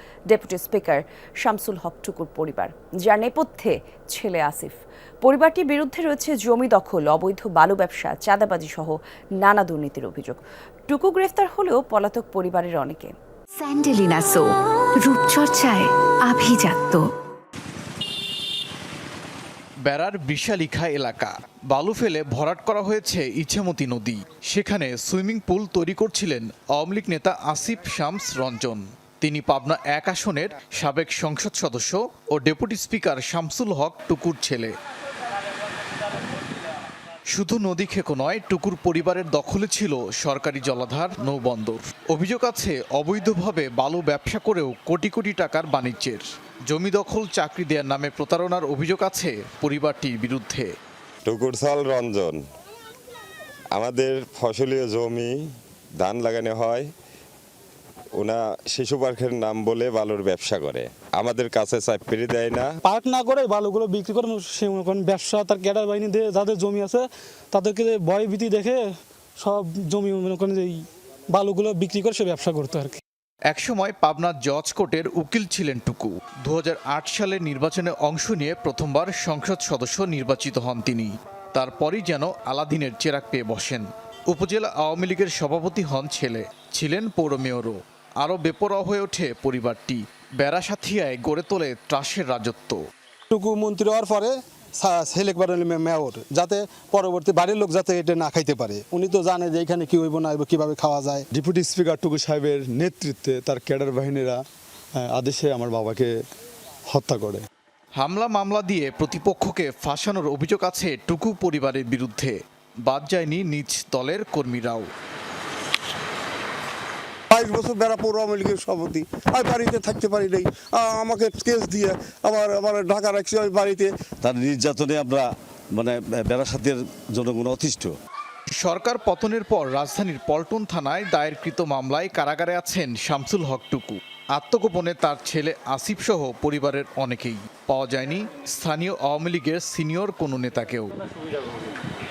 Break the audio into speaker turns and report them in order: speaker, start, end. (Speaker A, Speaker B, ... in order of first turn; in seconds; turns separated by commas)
Speaker A: 0.3-13.1, Speaker B: 13.6-17.1, Speaker C: 19.8-34.7, Speaker C: 37.3-50.7, Speaker D: 51.2-52.4, Speaker D: 53.7-55.4, Speaker D: 56.0-56.9, Speaker D: 58.1-62.7, Speaker E: 62.8-68.8, Speaker E: 69.4-73.0, Speaker C: 73.5-92.8, Speaker F: 93.3-101.2, Speaker G: 101.3-104.4, Speaker G: 104.9-106.1, Speaker G: 106.9-107.5, Speaker C: 108.0-114.9, Speaker H: 117.3-123.9, Speaker I: 124.2-128.0, Speaker C: 128.6-141.0